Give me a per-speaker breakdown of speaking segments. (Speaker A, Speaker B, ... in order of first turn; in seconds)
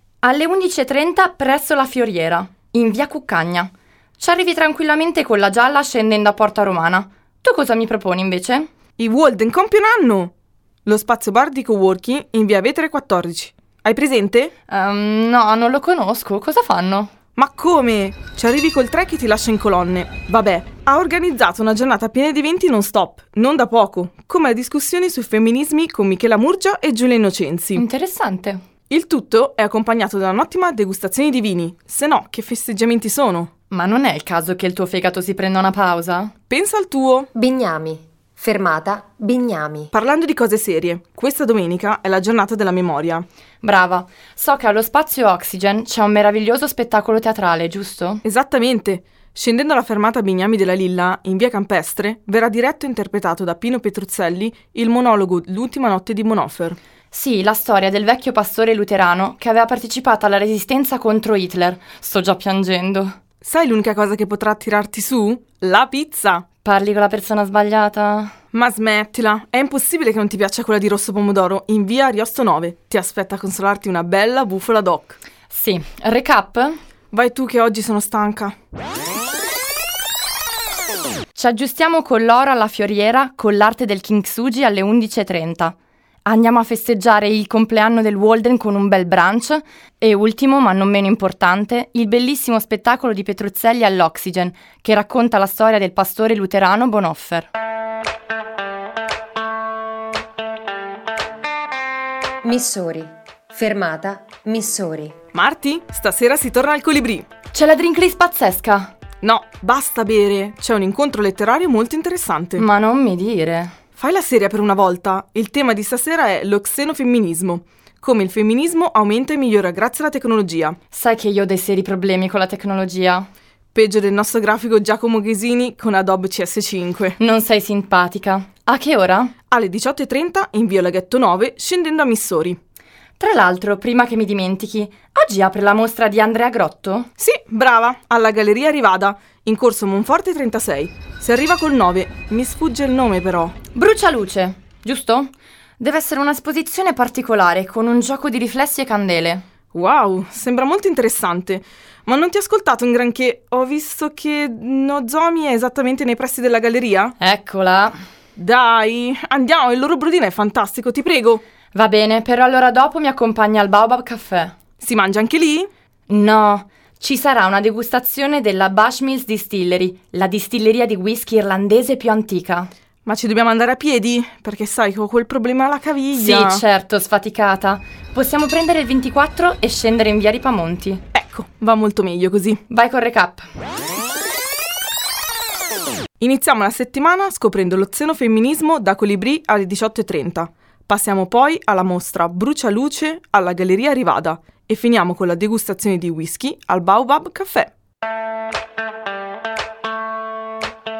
Speaker A: 0.2-8.7, 14.7-17.1, 27.8-28.6, 33.7-36.3, 43.6-48.2, 57.1-63.1, 66.6-68.3, 75.5-76.8, 81.3-97.5, 107.5-108.9, 112.6-113.7, 120.9-123.2, 127.2-129.3, 133.2-137.1, 143.7-149.4, 157.2-157.9, 161.7-164.5, 166.1-172.7, 176.1-181.0, 182.7-183.5
Speaker B: 9.0-10.3, 10.8-14.5, 17.4-27.8, 28.9-33.5, 36.5-37.3, 39.9-43.2, 48.2-56.8, 63.4-66.4, 68.5-75.2, 77.1-78.5, 105.3-107.2, 109.2-112.6, 114.0-120.8, 123.7-127.2, 129.5-132.6, 137.2-143.5, 149.7-157.1, 158.4-161.4, 164.8-165.7, 173.1-176.6, 181.1-182.6, 186.2-197.7
Speaker C: 37.3-39.9, 102.4-105.2